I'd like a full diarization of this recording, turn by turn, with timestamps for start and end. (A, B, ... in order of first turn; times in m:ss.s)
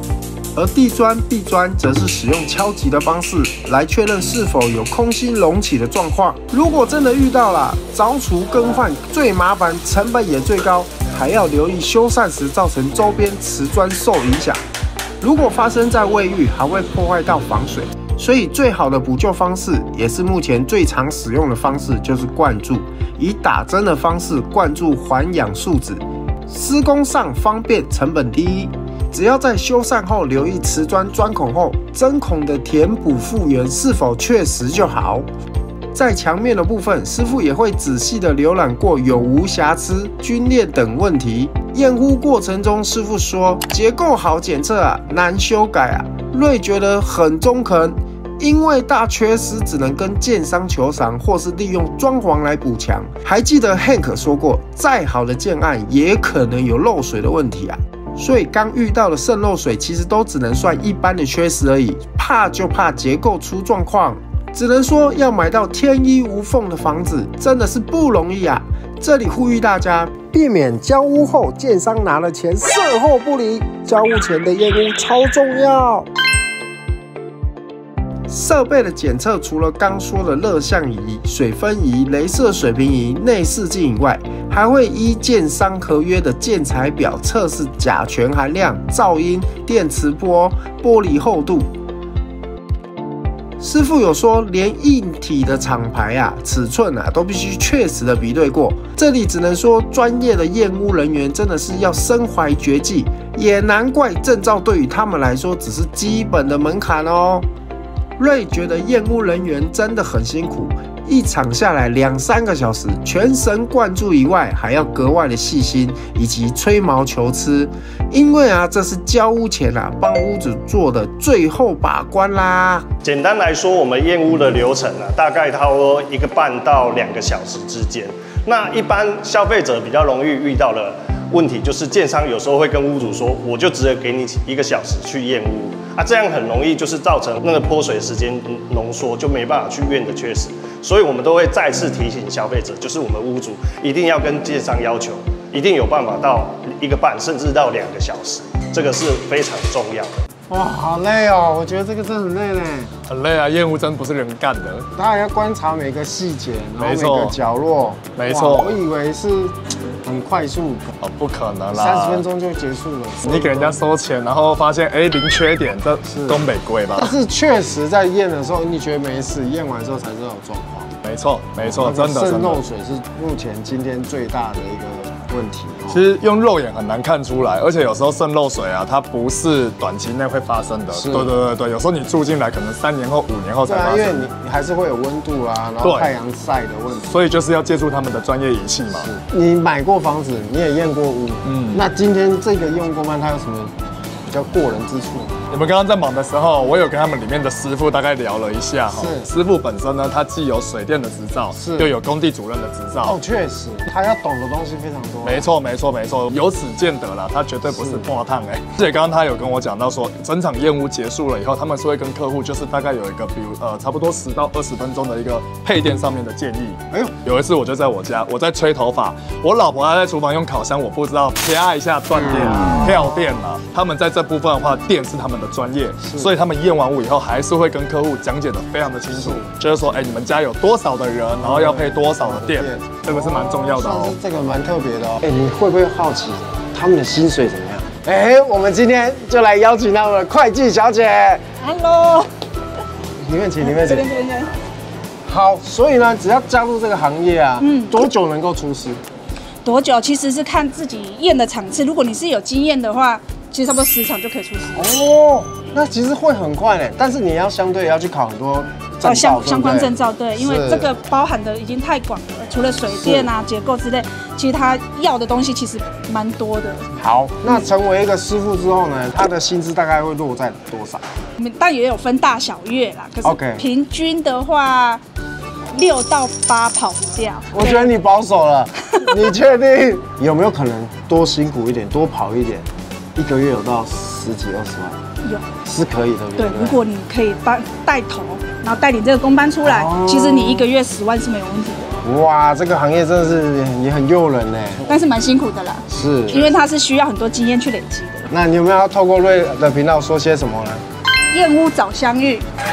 0:00.6-0:14.6 A
0:15.2-0:35.2 A
0:35.9-1:16.1 A
1:18.3-1:31.7 A
1:33.6-1:47.5 A
1:48.2-2:02.8 A
2:03.0-2:30.1 B
2:30.5-2:32.9 C
2:33.1-2:34.9 D
2:35.0-2:41.0 C
2:36.8-2:37.4 D
2:38.1-2:38.8 D
2:41.0-2:42.2 D
2:41.7-2:43.8 C
2:43.2-2:47.1 D
2:47.0-2:50.9 C
2:51.0-2:52.6 D
2:51.6-2:56.0 C
2:55.9-3:04.2 D
3:00.9-3:01.3 C
3:03.6-3:07.2 C
3:05.8-3:06.1 D
3:07.0-3:09.1 D
3:09.0-3:13.7 C
3:11.4-3:11.8 D
3:14.3-3:15.4 C
3:15.5-3:23.2 D
3:18.9-3:19.3 C
3:21.6-3:21.9 C
3:23.0-3:25.5 C
3:25.2-3:54.2 D
3:27.8-3:28.1 C
3:36.9-3:37.2 C
3:49.1-3:49.4 C
3:51.4-4:01.5 C
4:01.6-4:02.3 E
4:03.2-4:04.0 C
4:03.6-4:04.5 E
4:05.2-4:09.0 C
4:07.6-4:08.1 E
4:09.6-4:14.9 E
4:14.8-4:20.9 C
4:19.0-4:26.9 E
4:23.0-4:23.3 C
4:27.0-4:31.0 C
4:31.4-4:35.0 E
4:33.2-4:33.6 C
4:35.7-4:37.9 E
4:37.5-4:45.0 C
4:45.2-4:45.6 E
4:45.6-4:46.8 C
4:46.4-4:52.0 E
4:49.6-4:50.6 C
4:52.0-4:54.9 C
4:54.9-4:58.3 E
4:55.9-4:56.5 C
4:58.3-5:00.8 C
5:01.3-5:02.5 E